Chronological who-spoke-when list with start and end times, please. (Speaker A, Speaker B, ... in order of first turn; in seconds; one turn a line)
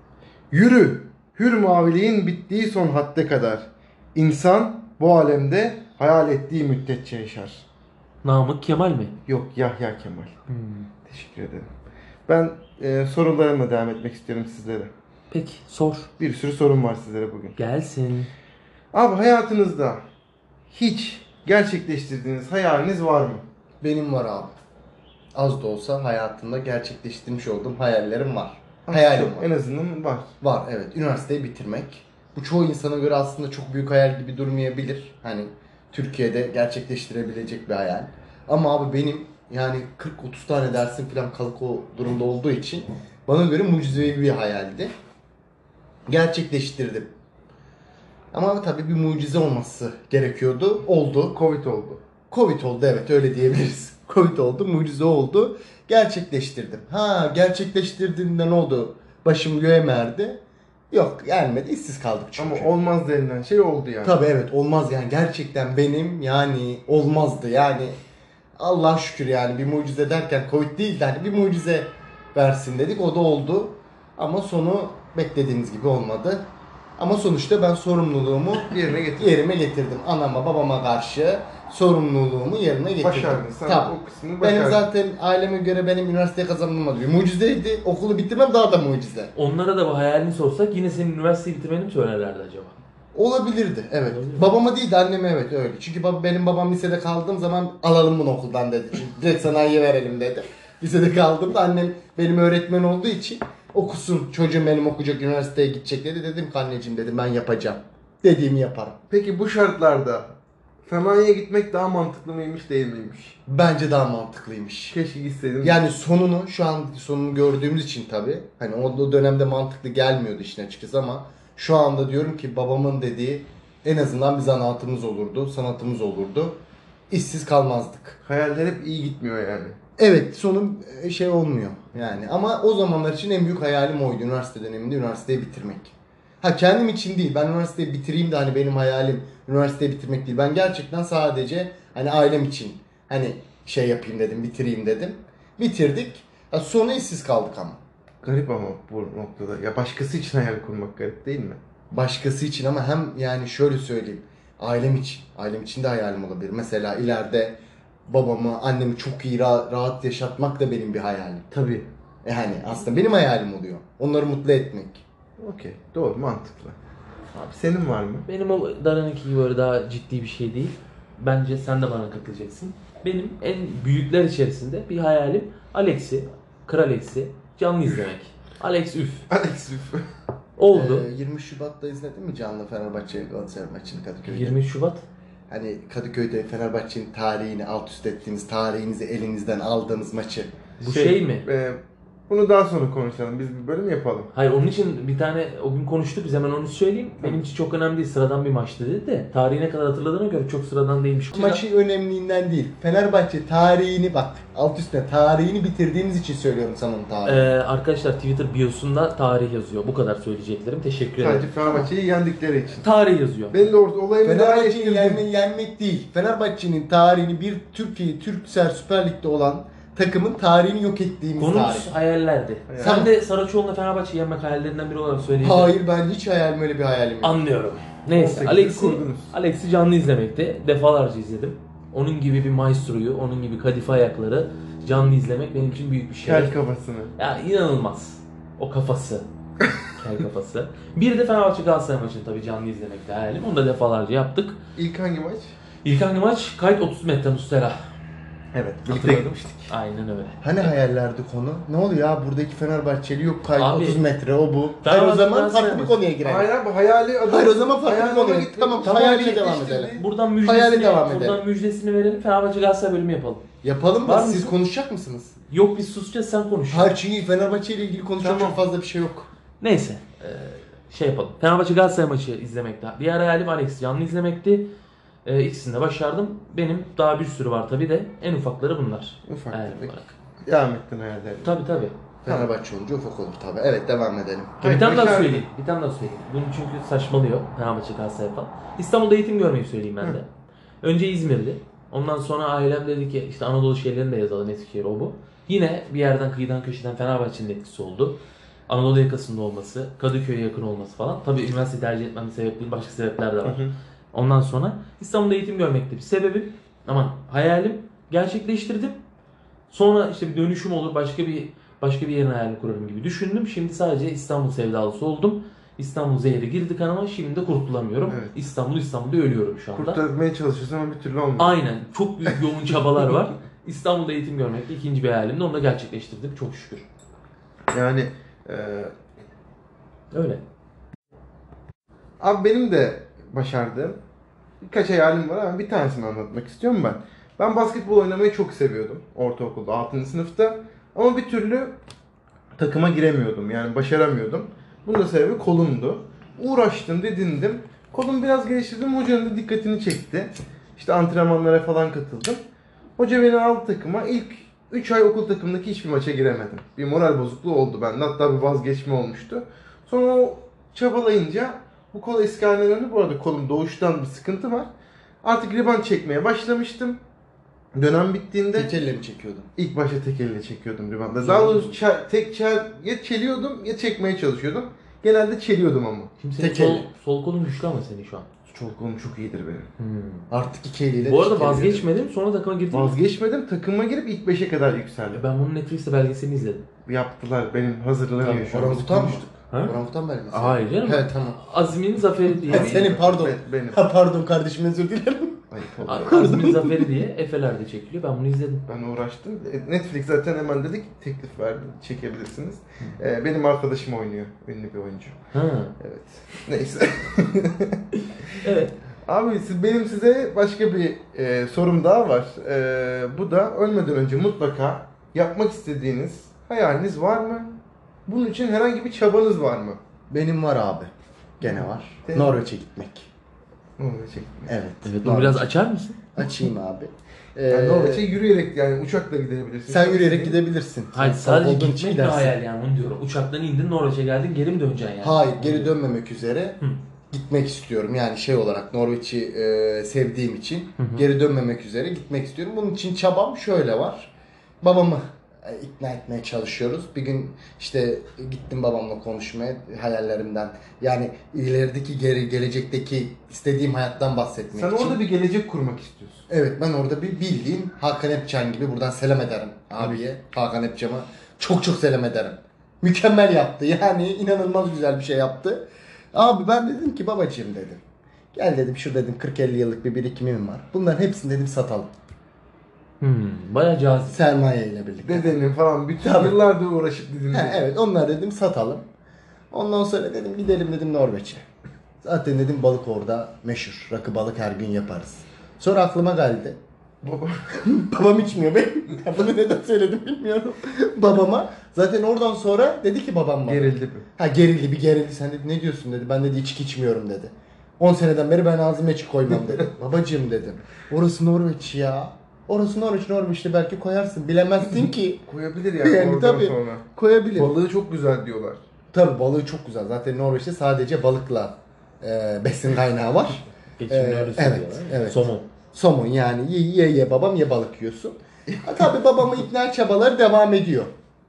Speaker A: 0.5-7.6
Speaker B: 8.2-9.2
Speaker A: 9.3-10.3
Speaker B: 10.5-10.9
Speaker A: 11.0-11.7
Speaker A: 12.3-14.9
Speaker B: 15.3-16.1
Speaker A: 16.2-17.6
Speaker B: 17.6-18.3
Speaker A: 18.9-20.0
Speaker A: 20.7-23.4
Speaker C: 23.8-24.5
Speaker C: 25.3-29.5
Speaker A: 28.9-30.3
Speaker C: 30.4-44.9
Speaker C: 46.1-47.1
Speaker C: 48.3-51.4
Speaker A: 51.3-52.0
Speaker C: 52.3-62.7
Speaker A: 62.4-64.2
Speaker C: 64.0-68.0
Speaker C: 68.6-89.3
Speaker A: 78.6-79.3
Speaker A: 83.0-84.9
Speaker B: 89.3-92.8
Speaker C: 93.1-109.0
Speaker B: 94.1-94.5
Speaker A: 109.1-110.3
Speaker A: 110.8-113.4
Speaker C: 113.5-115.0
Speaker A: 114.9-115.8
Speaker C: 115.6-126.6
Speaker C: 127.1-128.2
Speaker A: 128.2-129.8
Speaker C: 130.0-147.8
Speaker A: 148.2-151.6
Speaker C: 151.9-161.5
Speaker A: 161.5-161.8
Speaker C: 162.2-165.0
Speaker A: 165.4-166.8
Speaker A: 167.3-168.3
Speaker B: 168.3-179.2
Speaker A: 179.3-180.1
Speaker B: 180.6-181.1
Speaker C: 180.7-184.6
Speaker B: 184.2-185.0
Speaker C: 185.5-190.5
Speaker B: 190.8-191.4
Speaker A: 190.8-194.3
Speaker B: 194.3-201.6
Speaker C: 201.3-207.5
Speaker B: 207.2-211.9
Speaker A: 211.2-212.8
Speaker B: 212.8-213.7
Speaker A: 213.5-215.2
Speaker C: 214.2-221.9
Speaker B: 221.4-225.8
Speaker A: 222.7-223.1
Speaker C: 222.8-223.1
Speaker C: 225.4-227.4
Speaker B: 227.2-236.6
Speaker A: 228.1-229.3
Speaker A: 236.2-237.1
Speaker B: 237.2-239.2
Speaker B: 239.9-244.6
Speaker A: 244.8-245.5
Speaker B: 245.8-247.8
Speaker A: 248.5-249.7
Speaker B: 248.9-250.4
Speaker C: 250.4-256.5
Speaker B: 253.6-254.0
Speaker B: 254.8-256.0
Speaker A: 256.2-260.0
Speaker C: 257.3-261.4
Speaker B: 258.9-259.2
Speaker B: 259.9-263.4
Speaker C: 263.6-265.4
Speaker B: 264.0-264.5
Speaker B: 265.5-266.9
Speaker C: 266.7-269.3
Speaker A: 268.2-268.6
Speaker B: 269.6-274.7
Speaker B: 275.2-280.1
Speaker A: 279.3-281.6
Speaker B: 281.4-282.0
Speaker C: 282.2-284.6
Speaker A: 284.6-285.4
Speaker B: 284.6-290.3
Speaker B: 290.8-303.6
Speaker A: 303.4-303.7
Speaker B: 304.1-309.0
Speaker B: 309.7-320.0
Speaker A: 318.1-318.4
Speaker A: 319.7-321.6
Speaker B: 321.4-326.8
Speaker A: 327.7-328.9
Speaker B: 330.1-330.4
Speaker A: 332.2-334.0
Speaker A: 334.6-341.8
Speaker A: 342.6-352.4
Speaker A: 353.0-364.7
Speaker A: 365.2-367.0
Speaker A: 367.7-368.7
Speaker C: 368.5-369.5
Speaker A: 369.6-376.1
Speaker C: 371.2-371.8
Speaker B: 376.2-378.3
Speaker C: 376.4-376.9
Speaker A: 378.5-379.7
Speaker B: 379.8-380.3
Speaker C: 380.3-382.0
Speaker B: 381.0-383.0
Speaker A: 382.7-385.2
Speaker B: 385.1-386.6
Speaker A: 386.9-389.3
Speaker C: 388.2-391.4
Speaker B: 389.5-389.8
Speaker B: 390.3-392.9
Speaker A: 392.4-393.8
Speaker C: 392.5-395.5
Speaker A: 395.5-396.3
Speaker B: 395.9-398.6
Speaker C: 396.1-396.9
Speaker A: 398.7-405.1
Speaker B: 405.3-405.7
Speaker A: 405.8-407.8
Speaker B: 408.4-408.7
Speaker A: 409.1-417.5
Speaker A: 418.1-419.8
Speaker C: 420.1-423.1
Speaker A: 421.4-422.4
Speaker A: 423.8-424.5
Speaker C: 424.5-425.5
Speaker B: 424.8-426.1
Speaker C: 426.1-428.1
Speaker A: 427.5-430.4
Speaker C: 429.7-432.4
Speaker B: 430.9-435.8
Speaker C: 435.0-436.6
Speaker C: 437.1-455.0
Speaker B: 440.8-441.0
Speaker A: 454.5-456.2
Speaker C: 456.3-467.8
Speaker C: 468.3-471.9
Speaker B: 473.0-474.2
Speaker C: 474.1-475.4
Speaker A: 475.0-477.6
Speaker C: 476.0-476.4
Speaker C: 477.3-478.9
Speaker C: 479.5-481.4
Speaker C: 482.0-486.6
Speaker A: 487.0-487.4
Speaker C: 487.5-505.2
Speaker A: 493.4-494.1
Speaker A: 505.3-506.8
Speaker C: 505.8-507.6
Speaker A: 507.4-508.6
Speaker C: 508.9-520.9
Speaker B: 513.8-515.5
Speaker A: 518.5-518.9